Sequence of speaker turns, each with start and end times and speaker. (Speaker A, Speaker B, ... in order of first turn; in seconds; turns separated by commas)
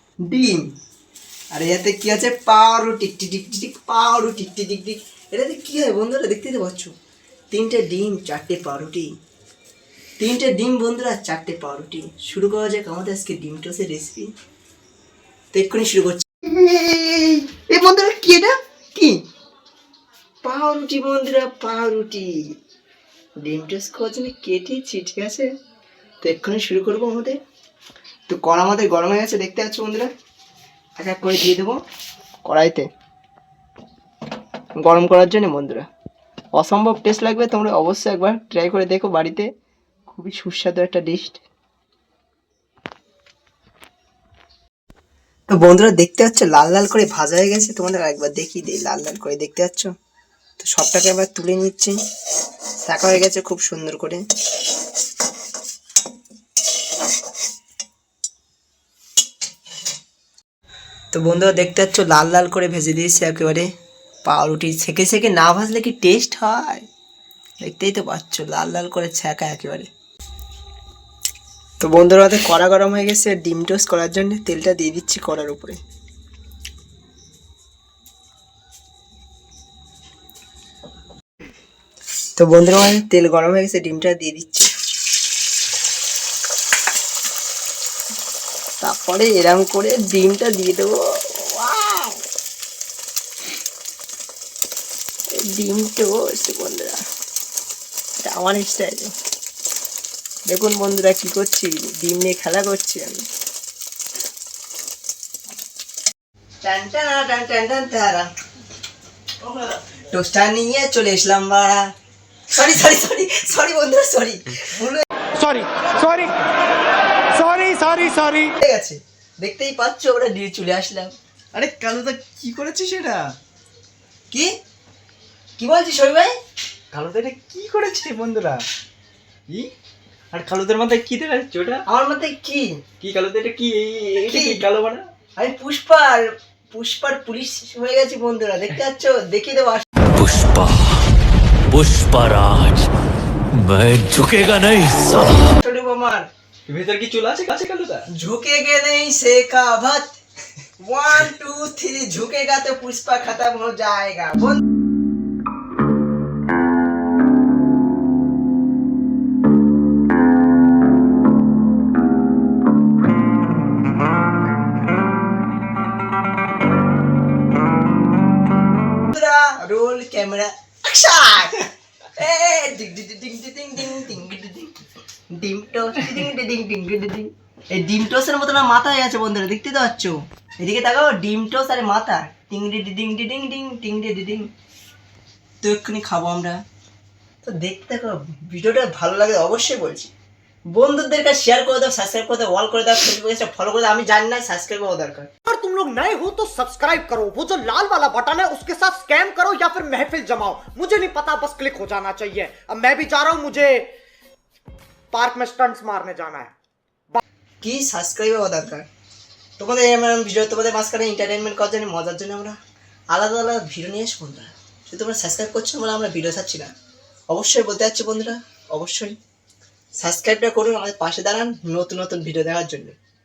Speaker A: 0.3-0.7, Speaker A: 1.5-6.9, Speaker A: 7.5-9.1, Speaker A: 10.2-14.3, Speaker A: 15.5-19.2, Speaker A: 20.4-22.4, Speaker A: 23.4-25.5, Speaker A: 26.2-27.4, Speaker A: 28.3-30.1, Speaker A: 31.0-31.8, Speaker A: 32.5-32.9, Speaker A: 34.8-35.9, Speaker A: 36.5-39.5, Speaker A: 40.1-41.4, Speaker A: 45.5-49.9, Speaker A: 50.6-52.0, Speaker A: 52.8-54.2, Speaker A: 61.1-63.7, Speaker A: 64.2-66.9, Speaker A: 67.6-69.9, Speaker A: 71.8-75.8, Speaker A: 82.4-84.7, Speaker A: 88.8-92.2, Speaker A: 95.4-97.0, Speaker A: 98.2-99.1, Speaker A: 100.5-103.2, Speaker A: 106.6-108.3, Speaker A: 109.4-111.9, Speaker A: 112.5-115.1, Speaker B: 115.4-116.4, Speaker B: 117.3-118.5, Speaker A: 118.6-121.2, Speaker C: 121.5-123.2, Speaker A: 125.6-126.3, Speaker C: 126.9-128.6, Speaker C: 130.3-131.8, Speaker A: 131.9-132.7, Speaker C: 133.0-135.1, Speaker A: 134.3-134.7, Speaker A: 135.4-139.8, Speaker D: 140.2-141.1, Speaker D: 141.7-142.9, Speaker D: 143.5-145.4, Speaker A: 145.3-146.3, Speaker C: 146.7-148.1, Speaker A: 148.1-150.2, Speaker A: 150.8-154.6, Speaker A: 169.1-174.8, Speaker A: 175.3-184.5, Speaker A: 185.6-186.6, Speaker A: 187.4-190.1, Speaker A: 190.7-195.3, Speaker B: 195.5-203.9, Speaker B: 205.1-206.5, Speaker A: 207.6-208.9, Speaker A: 209.6-212.6, Speaker A: 213.1-216.7, Speaker A: 217.3-219.2, Speaker A: 219.9-222.9